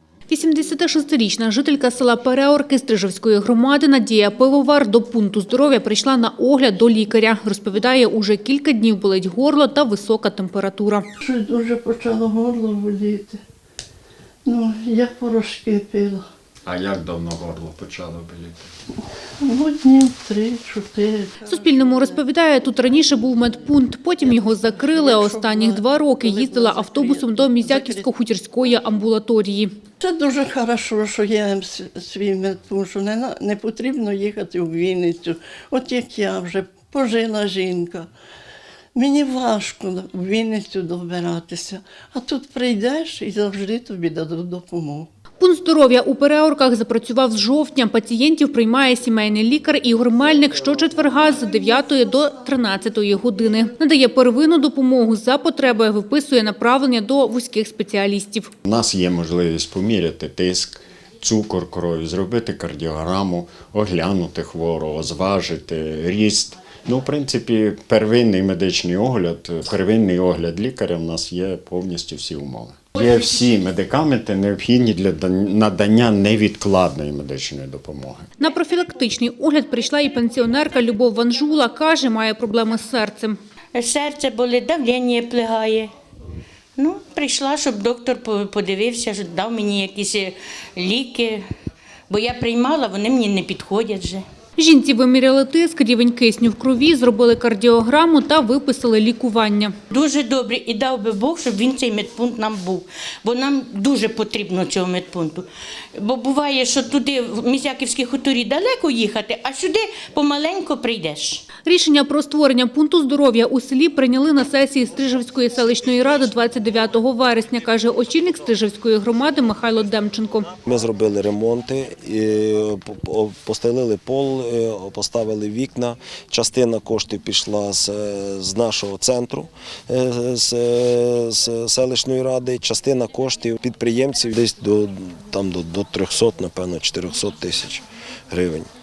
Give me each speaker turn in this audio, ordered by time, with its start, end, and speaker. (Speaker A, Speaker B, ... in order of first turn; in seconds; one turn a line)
Speaker A: 0.3-11.0
Speaker B: 11.2-13.4
Speaker B: 14.4-16.2
Speaker C: 16.6-18.7
Speaker B: 19.4-22.2
Speaker A: 21.4-29.7
Speaker B: 24.2-28.1
Speaker B: 30.0-38.1
Speaker B: 38.9-45.1
Speaker A: 45.4-58.5
Speaker C: 58.6-78.3
Speaker A: 78.4-83.4
Speaker D: 83.7-85.9
Speaker D: 86.8-91.4
Speaker D: 92.1-94.2
Speaker A: 94.6-99.7
Speaker D: 99.9-111.4
Speaker A: 111.6-120.5
Speaker E: 120.6-138.7